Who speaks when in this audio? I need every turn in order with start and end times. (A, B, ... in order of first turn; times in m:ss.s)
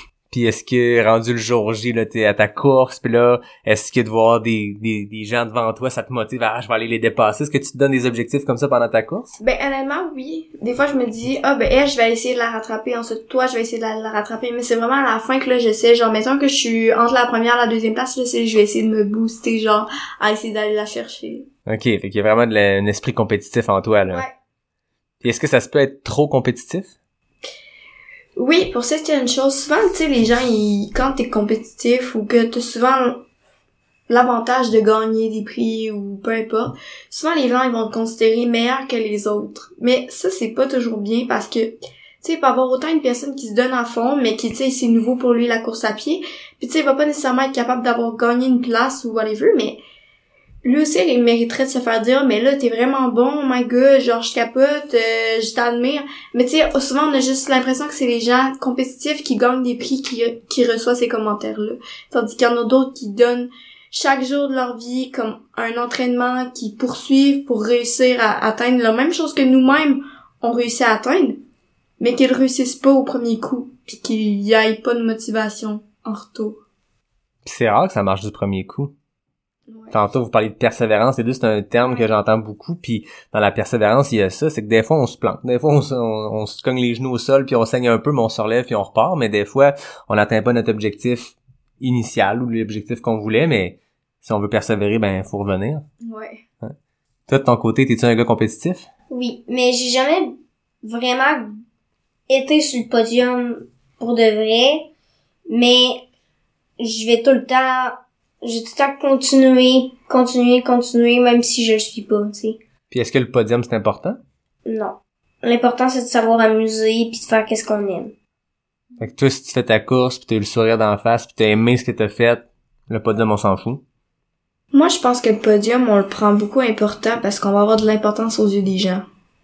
0:00.3-0:09.3 A
0:09.4-0:21.5 B
0:21.7-0:24.2 A
0:25.2-0:26.9 A
0:28.4-0:33.2 B
0:34.1-0:49.8 B
0:50.6-1:11.4 B
1:12.0-1:16.6 B
1:17.4-1:18.9 A
1:19.7-1:19.9 B
1:19.9-1:35.8 A
1:36.0-1:36.4 B
1:37.3-1:38.9 A
1:39.1-1:40.3 C
1:40.8-1:41.6 C
1:42.3-1:44.9 C
1:45.5-1:46.0 C
1:46.8-1:52.6 C
1:52.9-1:54.2 A
1:54.6-1:58.1 C
1:59.0-2:03.8 A
2:04.7-2:09.1 B